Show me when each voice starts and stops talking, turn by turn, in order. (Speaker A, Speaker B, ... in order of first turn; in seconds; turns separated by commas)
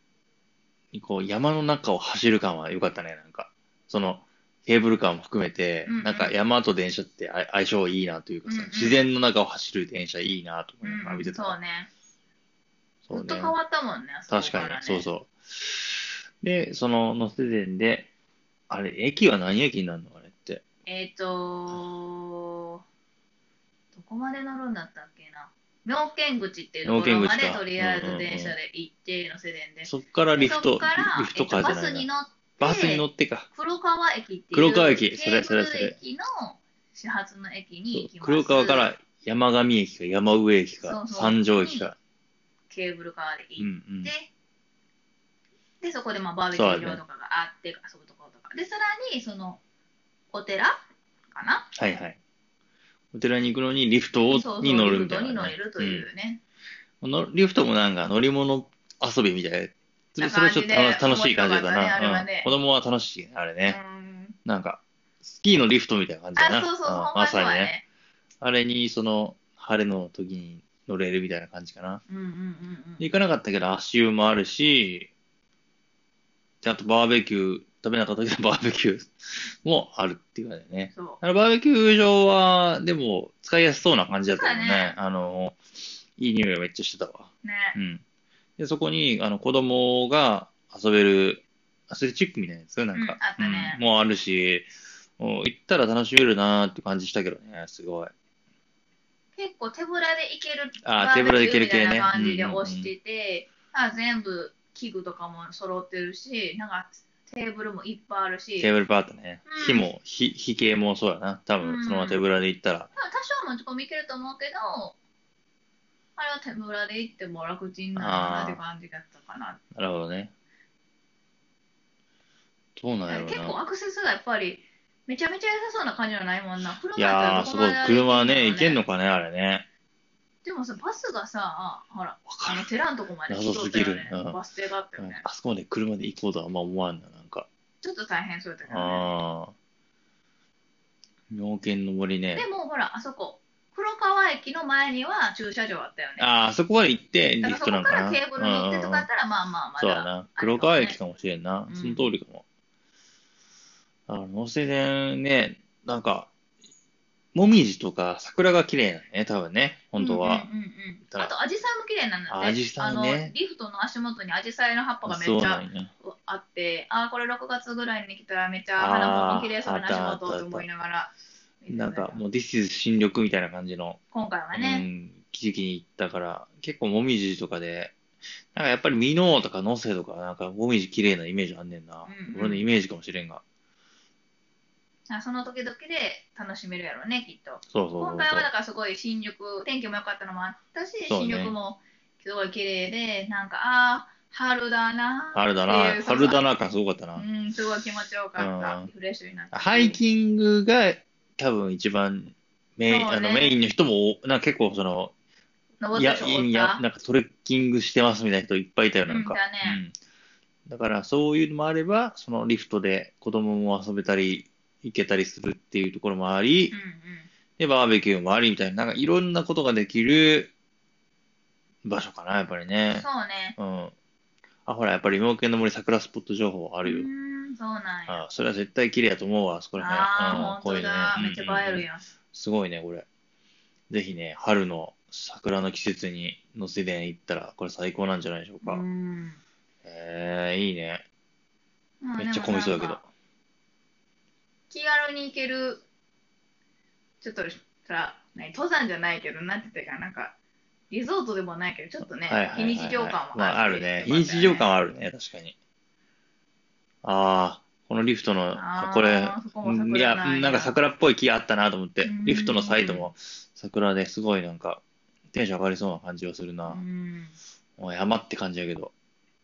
Speaker A: 0.9-11.6, Speaker B: 5.9-6.3, Speaker B: 8.5-9.0, Speaker B: 10.8-11.9, Speaker A: 13.1-13.6, Speaker B: 13.1-15.1, Speaker A: 14.3-18.1, Speaker A: 18.7-20.6, Speaker B: 20.9-22.8, Speaker B: 23.9-38.9, Speaker A: 26.9-28.6, Speaker A: 29.8-32.1, Speaker A: 32.6-33.5, Speaker A: 34.5-36.0, Speaker A: 37.9-42.0, Speaker B: 40.8-41.9, Speaker B: 42.7-44.3, Speaker A: 43.6-44.1, Speaker B: 45.8-49.6, Speaker A: 46.5-47.0, Speaker B: 50.3-51.7, Speaker A: 51.8-52.2, Speaker A: 53.1-56.1, Speaker B: 54.3-56.4, Speaker A: 57.0-63.8, Speaker B: 60.2-62.5, Speaker B: 63.7-64.4, Speaker A: 64.5-67.7, Speaker B: 66.4-67.8, Speaker A: 68.4-72.0, Speaker B: 72.1-73.1, Speaker A: 73.0-75.1, Speaker A: 76.6-85.6, Speaker B: 80.9-81.2, Speaker B: 84.3-85.0, Speaker A: 86.2-88.0, Speaker B: 87.4-87.8, Speaker A: 88.6-98.1, Speaker B: 92.9-93.8, Speaker B: 99.4-108.7, Speaker A: 100.8-102.9, Speaker A: 108.6-112.9, Speaker B: 109.5-109.9, Speaker B: 111.6-112.2, Speaker B: 113.0-115.0, Speaker B: 116.2-119.6, Speaker A: 118.0-118.6, Speaker A: 119.7-120.3, Speaker A: 122.8-123.6, Speaker B: 123.1-128.8, Speaker A: 127.0-129.7, Speaker B: 130.4-135.3, Speaker A: 132.3-132.7, Speaker A: 133.3-134.4, Speaker A: 135.0-137.5, Speaker B: 137.8-139.1, Speaker A: 138.7-139.5, Speaker A: 141.3-142.5, Speaker B: 142.3-146.3, Speaker A: 146.2-149.1, Speaker B: 147.4-151.0, Speaker A: 149.8-152.4, Speaker B: 151.7-152.1, Speaker A: 154.1-156.3, Speaker A: 157.3-160.5, Speaker B: 160.0-172.2, Speaker A: 162.3-163.3, Speaker A: 165.0-165.9, Speaker A: 168.8-170.7, Speaker A: 171.7-174.0, Speaker B: 174.1-174.9, Speaker A: 174.5-177.9, Speaker A: 178.5-183.4, Speaker B: 182.1-182.7, Speaker B: 185.1-196.4, Speaker A: 187.7-188.5, Speaker A: 191.1-191.6, Speaker A: 195.3-197.2, Speaker B: 197.2-200.0, Speaker A: 198.4-198.9, Speaker A: 199.5-205.1, Speaker B: 202.9-203.6, Speaker B: 205.8-206.8, Speaker A: 205.9-209.9, Speaker B: 209.1-209.8, Speaker A: 210.7-216.8, Speaker B: 216.7-217.3, Speaker A: 217.6-220.5, Speaker A: 221.8-223.1, Speaker B: 222.9-223.6, Speaker A: 223.6-223.9, Speaker A: 224.7-227.1, Speaker B: 226.8-228.2, Speaker A: 228.1-233.1, Speaker B: 229.8-232.1, Speaker A: 233.9-238.8, Speaker B: 238.6-239.4, Speaker A: 239.8-241.0, Speaker B: 242.0-243.0, Speaker A: 242.2-243.1, Speaker B: 244.7-245.8, Speaker B: 247.2-250.3, Speaker B: 250.9-254.8, Speaker A: 252.2-255.6, Speaker A: 257.0-266.8, Speaker B: 258.6-260.8, Speaker B: 262.0-263.1, Speaker B: 266.7-267.4, Speaker A: 267.8-268.9